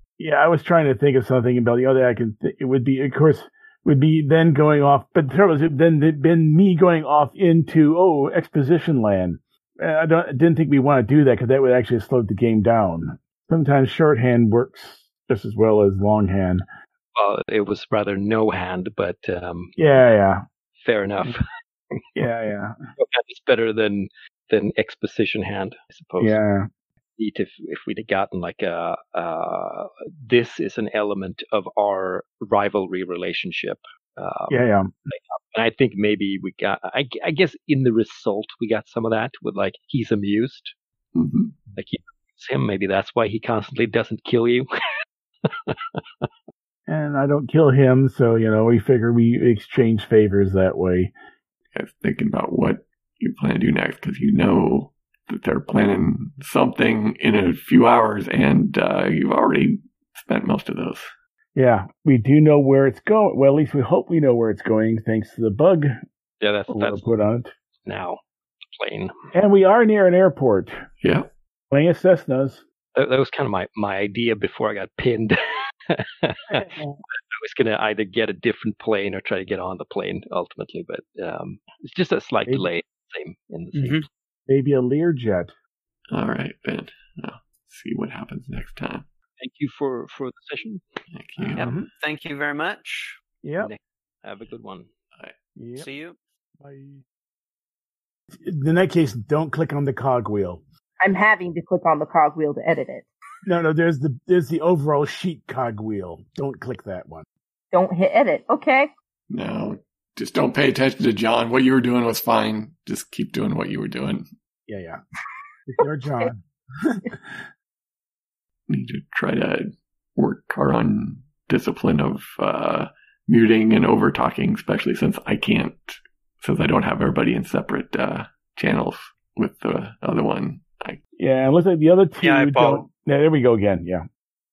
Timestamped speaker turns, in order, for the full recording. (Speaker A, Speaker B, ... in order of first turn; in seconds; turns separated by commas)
Speaker A: 0.2-16.6, Speaker B: 17.1-19.9, Speaker A: 19.8-20.4, Speaker B: 20.8-21.4, Speaker A: 22.1-22.8, Speaker B: 23.0-26.4, Speaker A: 26.2-26.7, Speaker B: 27.2-40.7, Speaker A: 34.5-34.9, Speaker C: 41.1-41.5, Speaker B: 41.7-44.7, Speaker B: 45.4-46.3, Speaker A: 46.9-51.1, Speaker C: 51.7-61.1, Speaker A: 61.5-65.9, Speaker B: 66.4-67.0, Speaker A: 66.7-67.5, Speaker B: 67.8-68.2, Speaker B: 68.7-69.1, Speaker A: 69.3-70.8, Speaker C: 71.0-71.3, Speaker A: 71.7-72.6, Speaker B: 72.9-75.4, Speaker B: 75.9-84.0, Speaker A: 76.5-77.0, Speaker D: 83.7-84.0, Speaker A: 84.5-85.5, Speaker C: 86.1-89.0, Speaker B: 89.4-90.8, Speaker C: 91.1-91.7, Speaker A: 91.4-91.9, Speaker D: 91.5-93.2, Speaker A: 93.4-93.7, Speaker B: 93.6-94.9, Speaker A: 95.5-95.9, Speaker D: 95.8-96.2, Speaker A: 96.6-97.0, Speaker A: 98.3-100.6, Speaker E: 101.0-103.0, Speaker A: 103.5-107.2, Speaker E: 107.7-108.9, Speaker C: 109.3-114.2, Speaker A: 114.7-115.0, Speaker A: 115.7-117.4, Speaker C: 118.7-131.0, Speaker A: 131.2-134.0, Speaker D: 132.2-132.9